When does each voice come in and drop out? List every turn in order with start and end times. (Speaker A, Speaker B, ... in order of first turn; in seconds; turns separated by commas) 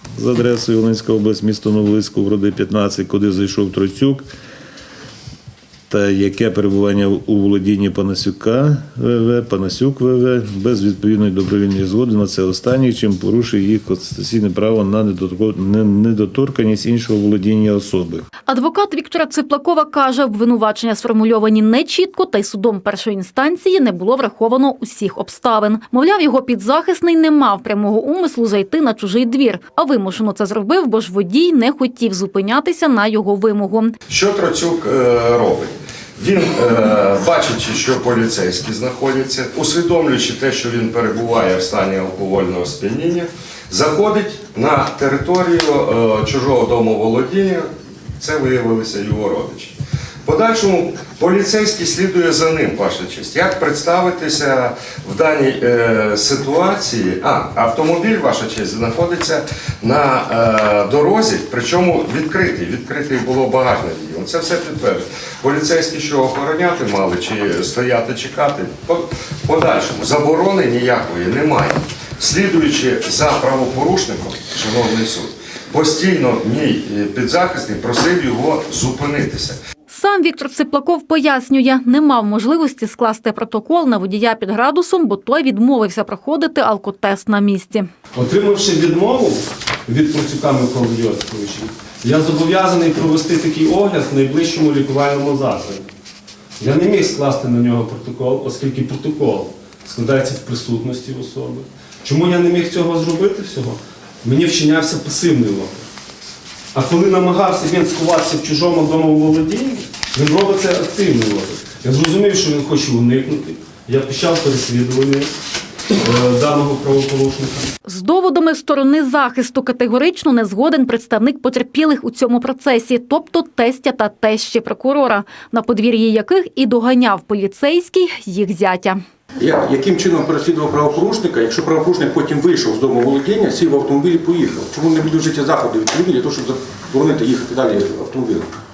Speaker A: 0.2-4.2, Speaker A: 5.9-18.2, Speaker B: 18.5-33.9, Speaker C: 34.1-49.7, Speaker C: 50.2-79.6, Speaker B: 79.9-87.9, Speaker D: 88.1-95.8, Speaker D: 96.6-105.8, Speaker D: 106.7-115.3, Speaker D: 116.0-117.7, Speaker B: 117.8-129.0, Speaker E: 129.4-138.5